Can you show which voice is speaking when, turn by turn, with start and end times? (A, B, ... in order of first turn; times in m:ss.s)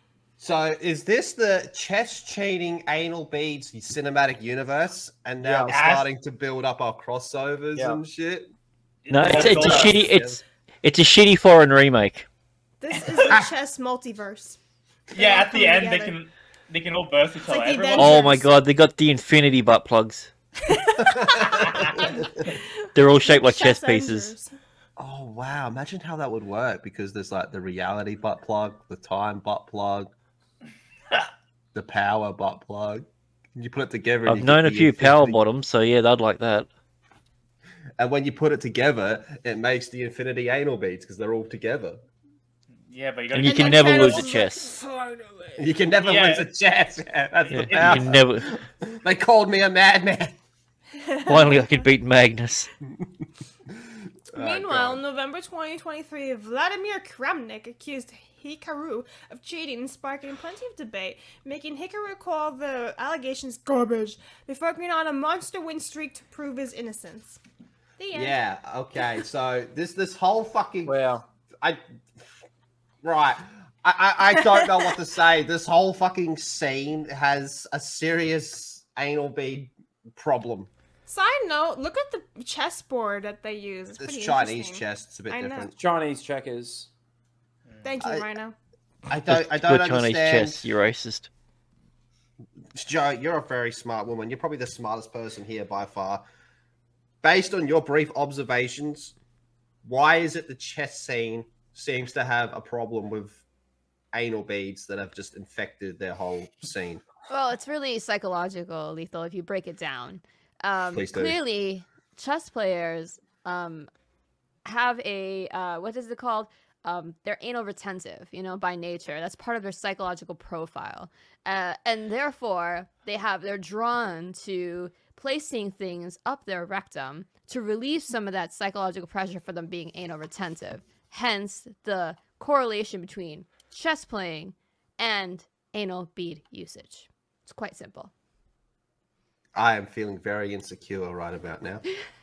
0:00.4-0:08.5 A
0:05.4-0:05.7 B
0:05.7-0:06.1 C
0:07.8-0:08.0 B
0:09.0-0:10.0 C
0:09.1-0:12.3 D
0:09.3-0:10.4 A
0:12.8-0:14.6 E
0:15.2-0:16.2 E
0:15.2-0:18.2 C
0:17.4-0:18.5 E
0:18.0-0:20.3 D
0:20.6-0:24.5 E
0:21.1-0:21.8 A
0:21.5-0:22.1 C
0:22.9-0:24.3 D
0:25.0-0:30.1 A
0:31.7-0:35.4 A
0:34.2-0:36.7 D
0:38.0-0:42.0 A
0:42.9-0:44.3 C
0:43.3-0:44.7 D
0:43.4-0:45.5 E
0:45.6-0:50.4 A
0:46.0-0:46.5 C
0:47.4-0:48.0 C
0:47.7-0:48.4 D
0:51.0-0:51.6 E
0:51.2-0:52.7 D
0:54.3-0:55.0 A
0:54.3-1:07.4 E
1:08.0-1:08.4 E
1:08.1-1:10.9 A
1:10.8-1:11.2 B
1:11.6-1:12.3 A
1:13.0-1:20.7 A
1:21.1-1:25.7 E
1:24.0-1:25.7 A
1:25.7-1:26.9 B
1:27.7-1:27.9 C
1:27.8-1:28.5 E
1:29.1-1:30.6 A
1:29.3-1:31.3 D
1:32.7-1:36.2 A
1:37.2-1:39.1 A
1:39.8-1:43.4 A
1:44.1-1:47.0 A
1:47.3-1:53.9 F
1:50.9-1:51.4 A
1:54.6-2:18.1 F
2:19.5-2:21.8 A